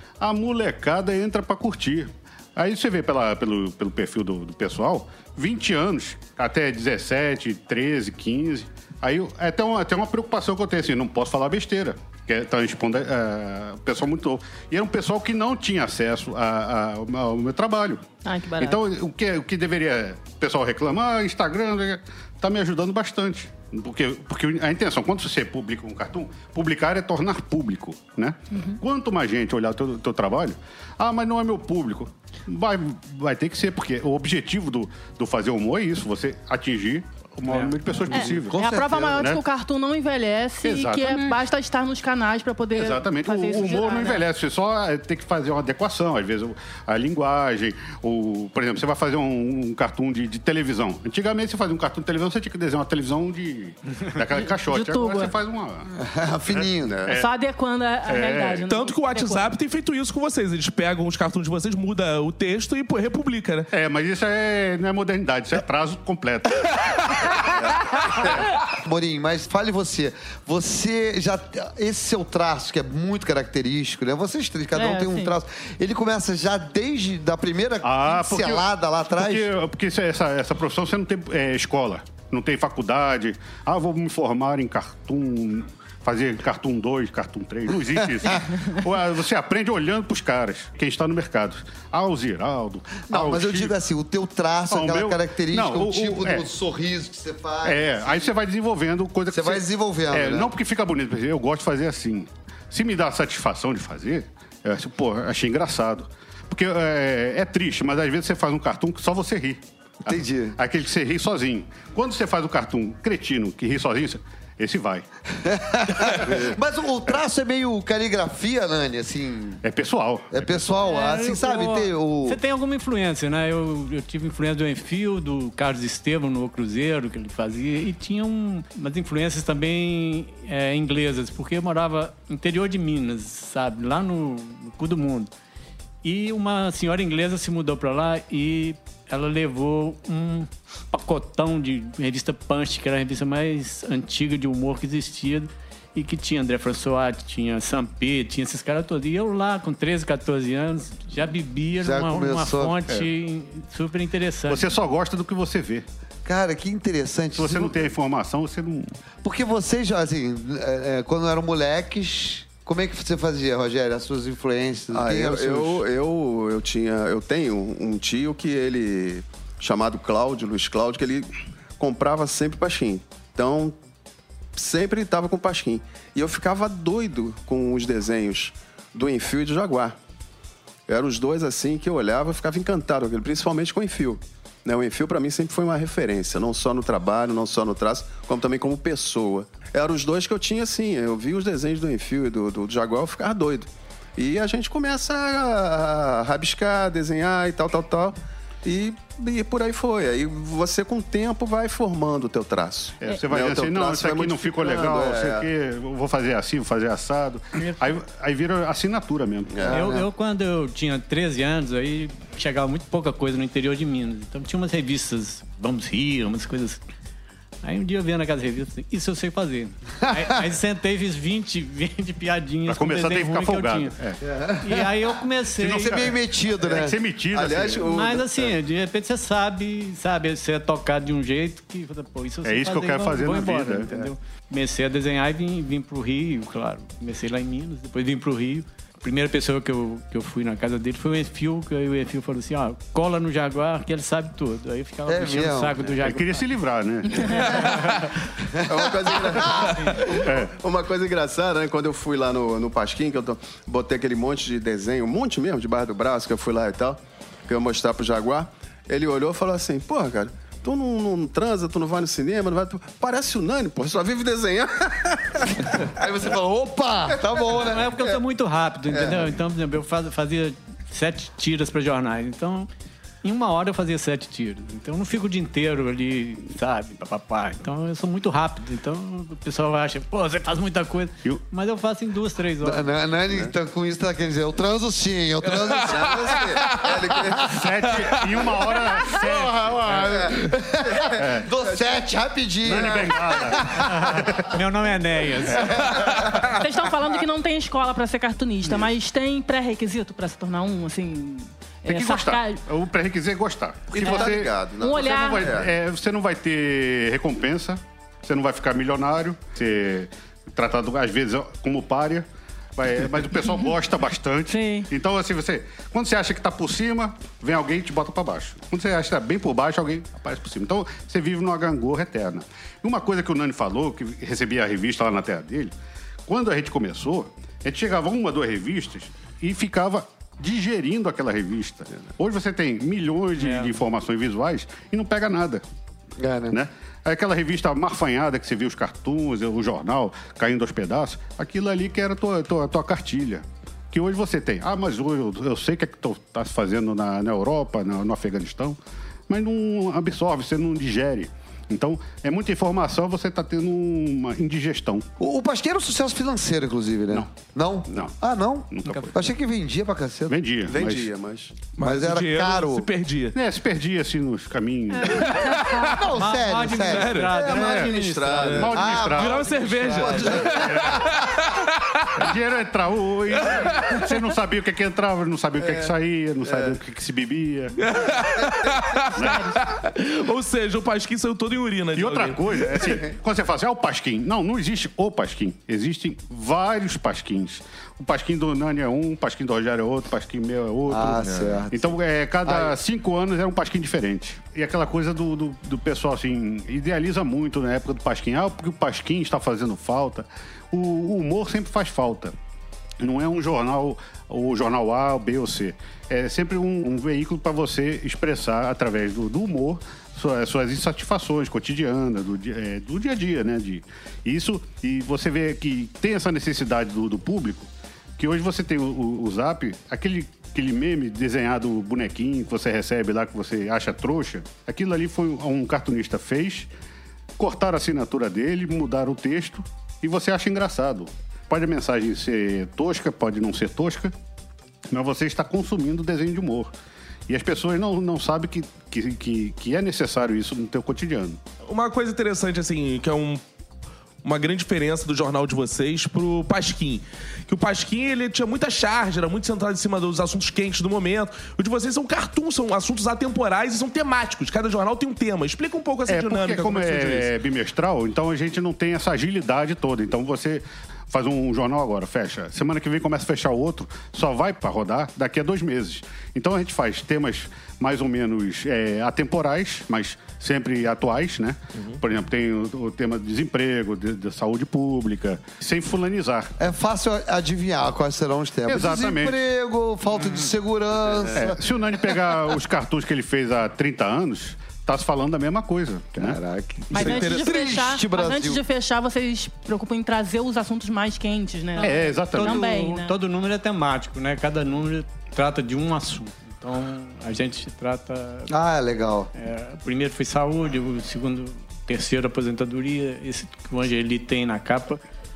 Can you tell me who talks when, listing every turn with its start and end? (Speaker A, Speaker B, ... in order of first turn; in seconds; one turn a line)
Speaker A: 0.2-18.0
Speaker B: 18.2-18.8
Speaker A: 18.6-39.4
Speaker B: 28.5-28.8
Speaker C: 37.5-37.7
Speaker B: 38.1-44.2
Speaker D: 38.1-39.1
Speaker A: 40.6-41.2
Speaker A: 42.7-55.9
Speaker B: 54.6-55.3
Speaker D: 55.9-57.1
Speaker E: 56.9-57.1
Speaker B: 57.1-59.5
Speaker A: 58.1-58.6
Speaker F: 58.7-63.7
Speaker A: 63.7-67.3
Speaker D: 68.6-79.5
Speaker B: 74.7-75.3
Speaker A: 77.8-93.7
Speaker D: 93.1-98.3
Speaker A: 94.7-96.4
Speaker A: 97.6-115.0
Speaker D: 99.3-100.5
Speaker D: 110.0-110.6
Speaker D: 115.4-119.6
Speaker A: 119.6-120.7
Speaker D: 120.3-122.4
Speaker C: 120.8-135.3
Speaker C: 136.0-154.7
Speaker D: 151.8-152.8
Speaker A: 154.5-155.8
Speaker D: 156.2-157.8
Speaker A: 157.3-158.9
Speaker D: 159.2-165.8
Speaker E: 164.9-173.8
Speaker E: 174.5-180.0
Speaker E: 180.9-205.5
Speaker A: 203.0-209.7
Speaker E: 209.5-209.8
Speaker D: 209.6-210.1
Speaker C: 209.7-216.8
Speaker C: 217.6-223.9
Speaker A: 222.7-224.2
Speaker D: 224.2-225.1
Speaker C: 224.6-226.1
Speaker A: 225.6-228.0
Speaker D: 225.6-226.9
Speaker E: 227.3-228.5
Speaker C: 227.8-246.5
Speaker A: 232.4-234.0
Speaker D: 245.1-245.9
Speaker A: 246.0-248.0
Speaker C: 247.5-247.8
Speaker D: 248.5-249.9
Speaker E: 248.6-265.8
Speaker A: 250.2-250.5
Speaker D: 265.7-267.9
Speaker C: 267.5-272.7
Speaker E: 267.8-268.1
Speaker E: 269.0-269.2
Speaker C: 273.2-282.9
Speaker D: 282.6-287.6
Speaker F: 285.4-286.8
Speaker E: 285.8-287.7
Speaker A: 287.5-290.3
Speaker D: 288.9-294.4
Speaker E: 290.0-291.9
Speaker A: 291.2-291.5
Speaker A: 292.6-294.6
Speaker E: 292.7-293.1
Speaker C: 293.7-295.9
Speaker A: 295.5-296.0
Speaker D: 295.5-296.5
Speaker B: 296.4-302.6
Speaker A: 301.9-325.7
Speaker E: 303.9-305.7
Speaker B: 304.0-305.5
Speaker B: 314.5-314.9
Speaker A: 326.3-335.6
Speaker C: 333.4-333.7
Speaker D: 336.2-336.6
Speaker A: 336.5-348.8
Speaker A: 349.3-355.1
Speaker D: 355.2-360.4
Speaker A: 357.9-358.1
Speaker A: 358.7-359.2
Speaker A: 360.3-361.1
Speaker E: 360.6-361.6
Speaker F: 361.8-363.4
Speaker D: 361.8-362.9
Speaker A: 363.3-365.5
Speaker F: 365.1-366.0
Speaker D: 365.8-367.8
Speaker C: 366.0-368.7
Speaker F: 366.8-367.3
Speaker E: 367.2-370.5
Speaker A: 367.6-367.9
Speaker F: 368.4-372.2
Speaker A: 368.4-369.5
Speaker D: 368.7-371.0
Speaker A: 370.6-371.2
Speaker A: 372.1-377.8
Speaker F: 373.4-374.0
Speaker E: 375.6-375.9
Speaker E: 376.4-376.8
Speaker F: 377.8-382.7
Speaker E: 378.5-378.8
Speaker A: 379.1-379.6
Speaker B: 379.1-379.6
Speaker A: 381.9-402.3
Speaker D: 390.9-391.9
Speaker D: 392.4-392.8
Speaker A: 403.0-426.7
Speaker A: 427.4-434.1
Speaker A: 434.9-436.7
Speaker A: 437.3-441.4
Speaker F: 441.6-443.4
Speaker F: 444.2-457.3
Speaker A: 456.1-476.5
Speaker D: 476.6-481.6
Speaker A: 478.7-479.4
Speaker A: 481.3-486.4
Speaker D: 486.1-488.6
Speaker B: 486.9-493.1
Speaker E: 486.9-487.4
Speaker A: 491.8-492.7
Speaker C: 491.8-498.5
Speaker D: 498.5-499.3
Speaker C: 499.3-505.0